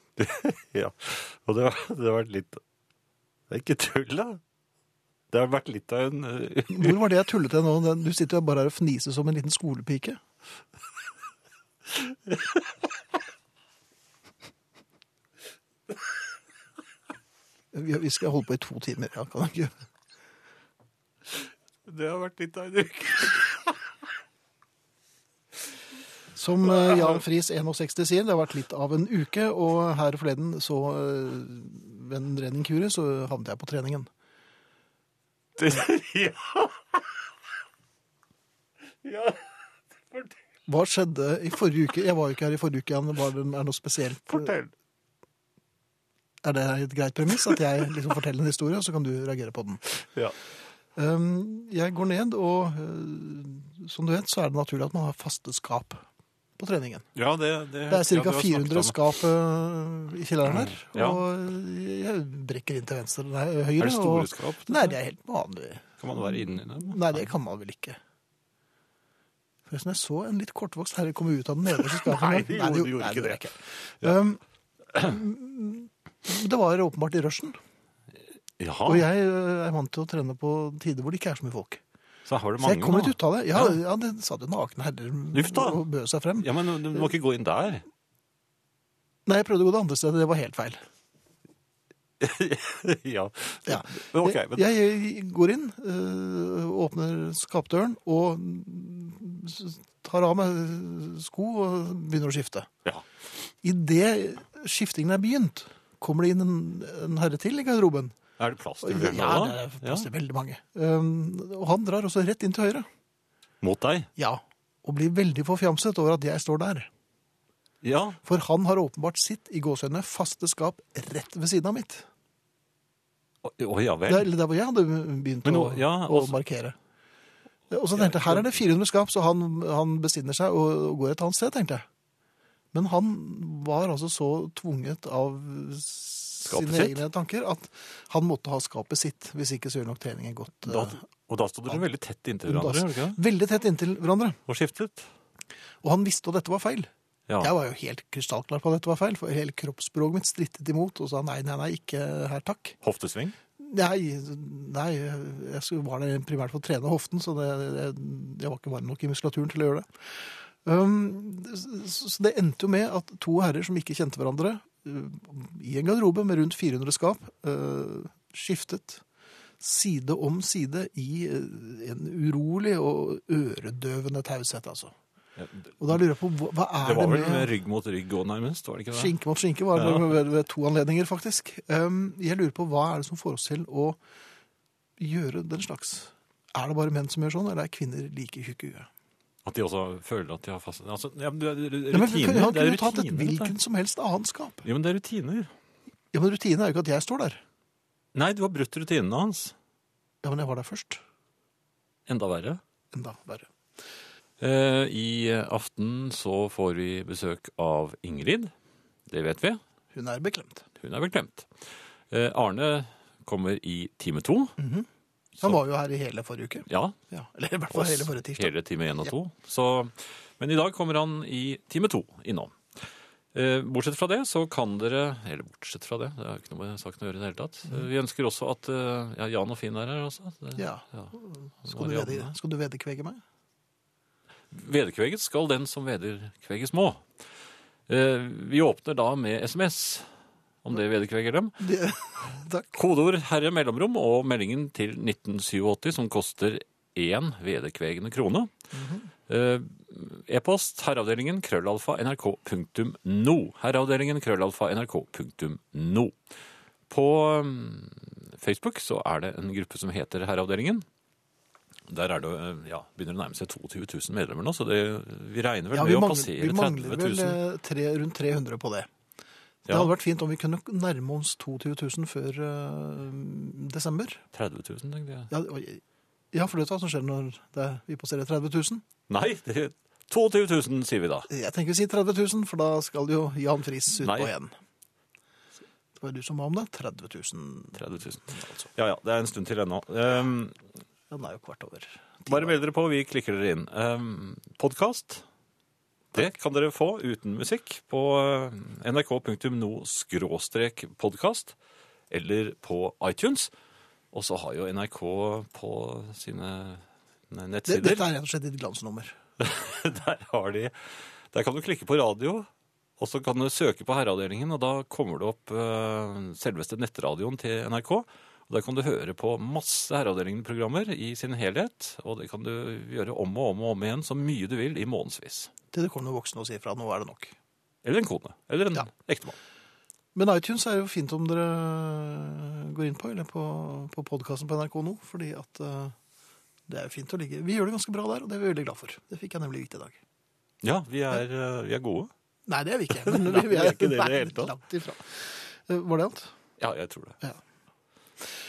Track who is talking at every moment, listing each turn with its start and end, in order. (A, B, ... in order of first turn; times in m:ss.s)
0:00.2-0:02.6 A
0:03.5-0:04.4 A
0:05.3-0:07.1 A
0:06.7-0:10.2 B
0:11.9-0:12.6 A
0:17.7-0:19.7 B
0:21.9-0:23.8 A
0:26.4-0:34.1 B
0:35.6-0:37.0 A
0:39.0-0:39.4 A
0:40.7-0:44.6 B
0:44.3-0:44.7 A
0:46.4-0:49.8 B
0:50.0-0:50.3 A
0:51.0-0:56.0 B
0:56.6-0:57.1 B
0:57.2-0:59.1 A
0:57.9-1:08.0 B
1:00.4-1:01.2 A
1:03.8-1:05.0 A
1:06.0-1:07.3 A
1:09.7-1:14.4 B
1:11.8-1:13.4 A
1:14.9-1:17.6 B
1:18.6-1:19.0 A
1:18.9-1:21.8 B
1:22.2-1:23.8 A
1:22.6-1:27.1 B
1:25.3-1:25.8 A
1:26.4-1:27.8 A
1:29.2-1:30.8 B
1:32.2-1:34.7 A
1:33.7-1:42.7 B
1:43.6-1:48.1 B
1:48.4-1:50.1 A
1:48.8-1:52.9 B
1:53.6-1:54.1 A
1:54.2-1:56.9 B
1:57.8-1:58.2 A
1:58.2-2:02.1 B
2:03.4-2:04.3 A
2:04.1-2:06.8 B
2:05.4-2:06.4 A
2:07.7-2:11.8 B
2:07.9-2:08.5 A
2:12.7-2:21.0 B
2:16.4-2:17.0 A
2:20.6-2:23.2 A
2:22.5-2:24.4 B
2:24.5-2:25.1 A
2:25.8-2:32.8 B
2:32.8-2:33.4 A
2:33.6-2:49.0 B
2:49.6-2:54.9 B
2:55.4-2:56.0 A
2:55.8-2:57.5 B
2:56.8-2:59.1 A
2:58.9-3:04.0 B
2:59.7-3:00.0 A
3:05.0-3:08.9 B
3:09.4-3:13.5 A
3:11.9-3:14.6 B
3:14.6-3:15.5 A
3:16.1-3:17.4 B
3:18.1-3:19.5 A
3:20.2-3:21.0 B
3:22.1-3:22.6 A
3:22.9-3:23.5 B
3:24.4-3:28.5 A
3:29.1-3:29.6 A
3:29.9-3:30.6 B
3:30.8-3:34.6 A
3:34.6-3:34.9 B
3:35.4-3:38.5 B
3:36.7-3:37.0 A
3:37.7-3:51.1 A
3:50.6-3:53.2 B
3:51.6-3:52.3 A
3:54.5-3:57.1 A
3:57.9-4:00.1 A
4:00.6-4:01.6 A
4:01.6-4:02.8 B
4:02.7-4:08.5 A
4:08.7-4:09.1 B
4:09.3-4:16.2 A
4:16.9-4:20.8 A
4:21.9-4:27.4 A
4:25.7-4:28.9 B
4:29.6-4:29.9 A
4:29.7-4:34.2 B
4:34.3-4:35.3 A
4:35.3-4:38.8 B
4:39.1-4:41.3 A
4:41.3-4:44.5 B
4:44.0-4:44.3 A
4:46.0-4:47.8 B
4:47.7-4:50.6 A
4:48.4-4:48.6 B
4:51.1-4:52.5 B
4:52.3-4:55.2 A
4:56.1-5:01.5 A
5:02.1-5:03.5 A
5:04.1-5:08.0 A
5:07.7-5:09.2 B
5:09.4-5:12.5 A
5:13.0-5:25.5 A
5:25.7-5:27.3 B
5:27.8-5:29.4 A
5:30.1-5:35.9 B
5:36.7-5:40.0 B
5:40.6-5:42.1 A
5:42.5-5:46.3 B
5:42.9-5:44.5 A
5:46.6-5:47.2 A